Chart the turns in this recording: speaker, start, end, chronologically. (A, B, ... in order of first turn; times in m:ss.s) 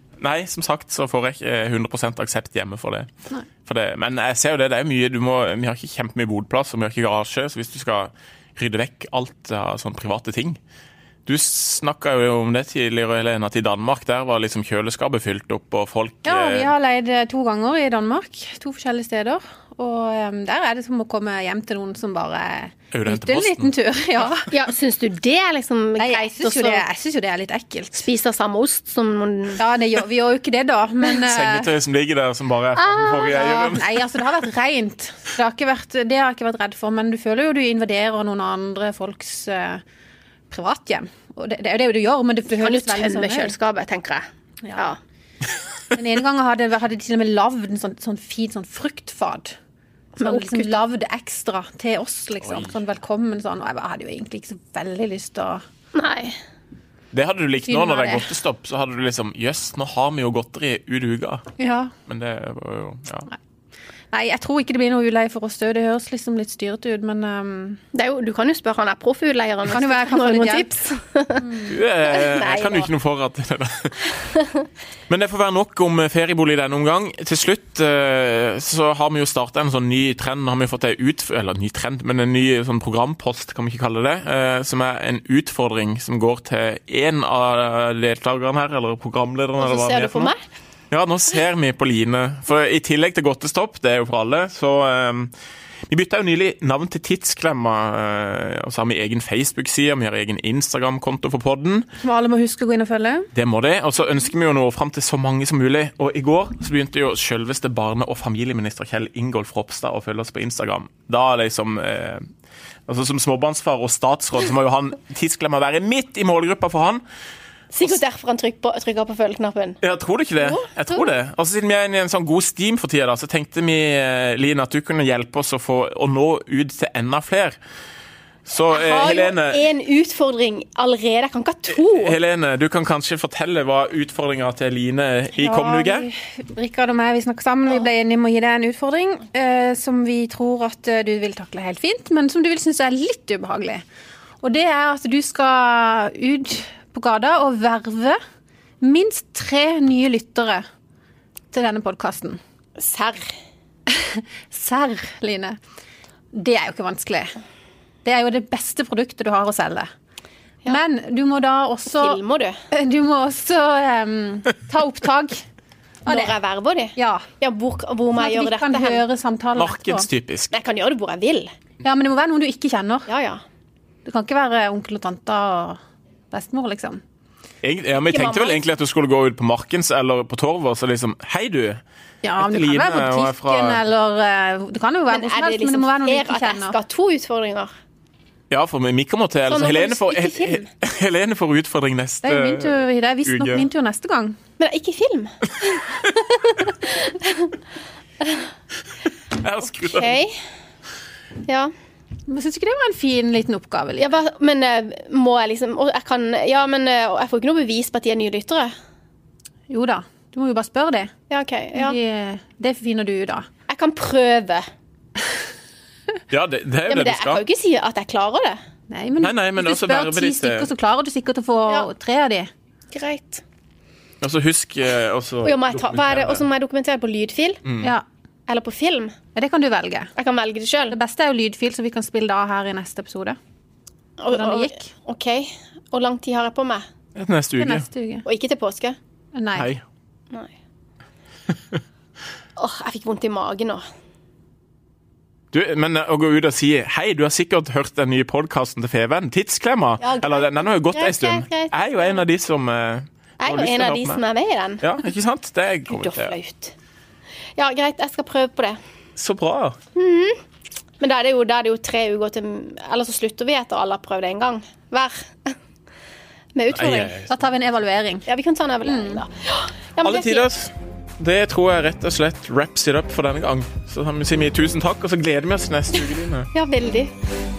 0:00.2-0:03.1 A
0:03.6-0:10.6 A
0:11.2-0:16.7 A
0:16.2-0:24.5 B
0:22.9-0:23.7 A
0:24.5-0:26.8 C
0:26.0-0:28.0 B
0:27.9-0:29.6 C
0:29.6-0:31.7 B
0:31.2-0:34.0 A
0:32.8-0:39.8 B
0:40.5-0:43.5 B
0:42.6-0:44.2 C
0:45.9-0:49.6 B
0:50.2-0:55.6 B
0:50.2-0:50.7 C
0:52.4-0:52.7 A
0:55.9-0:56.4 C
0:57.1-1:01.4 A
0:57.6-0:58.3 B
1:01.6-1:01.9 B
1:02.1-1:03.3 A
1:04.1-1:07.8 B
1:07.9-1:12.9 C
1:09.7-1:10.7 B
1:11.6-1:14.2 A
1:14.3-1:14.6 C
1:15.1-1:30.3 A
1:29.6-1:30.4 C
1:30.9-1:35.3 A
1:35.9-1:41.9 A
1:42.0-1:43.3 B
1:43.3-1:52.2 A
1:52.9-1:57.0 A
1:57.7-1:59.8 C
1:59.8-2:07.5 A
2:00.4-2:01.1 C
2:08.4-2:09.6 A
2:08.7-2:12.2 C
2:11.7-2:16.1 A
2:15.4-2:23.8 B
2:24.4-2:28.2 B
2:28.8-2:30.6 B
2:31.5-2:32.4 B
2:32.8-2:33.3 C
2:33.9-2:35.6 B
2:36.3-2:37.3 B
2:38.0-2:39.9 B
2:40.6-2:42.2 B
2:41.9-2:42.6 C
2:42.7-2:45.4 B
2:46.0-2:46.3 B
2:46.1-2:49.0 C
2:47.0-2:47.3 B
2:48.2-2:50.1 B
2:49.6-2:50.5 A
2:50.5-2:51.5 C
2:51.8-2:53.1 B
2:53.1-2:53.4 C
2:54.0-2:55.8 B
2:56.3-2:57.0 B
2:57.6-3:01.8 A
2:58.0-2:58.6 C
3:02.2-3:06.8 B
3:02.4-3:03.8 A
3:05.1-3:07.7 C
3:08.5-3:13.7 A
3:09.5-3:10.6 C
3:12.2-3:14.4 B
3:14.6-3:17.5 C
3:19.3-3:20.2 A
3:19.8-3:20.3 C
3:21.4-3:21.7 C
3:22.3-3:24.1 B
3:24.0-3:28.7 C
3:29.7-3:31.1 B
3:31.3-3:32.0 C
3:31.7-3:33.5 B
3:33.7-3:34.6 C
3:36.3-3:37.4 A
3:36.9-3:38.6 C
3:38.9-3:42.5 B
3:39.2-3:40.7 A
3:42.9-3:43.4 C
3:44.2-3:46.4 A
3:45.4-3:47.6 C
3:47.6-3:47.9 A
3:48.5-3:49.1 C
3:49.3-3:50.1 B
3:50.2-3:50.9 C
3:50.9-3:53.4 B
3:54.2-3:56.8 C
3:54.3-3:54.9 B
3:57.2-3:57.8 A
3:57.6-3:58.2 B
3:58.2-3:59.0 C
3:59.3-3:59.7 B
3:59.6-3:59.8 A
4:02.6-4:03.8 C
4:05.5-4:14.2 A
4:10.0-4:12.2 C
4:13.4-4:14.9 C
4:14.8-4:16.3 A
4:15.9-4:16.7 C
4:17.6-4:18.8 C
4:19.2-4:19.8 A
4:19.9-4:20.4 C
4:21.0-4:25.6 C
4:26.5-4:27.2 C
4:26.7-4:27.3 A
4:27.3-4:28.2 B
4:28.3-4:30.4 C
4:28.8-4:29.2 B
4:30.0-4:36.5 A
4:36.0-4:37.1 C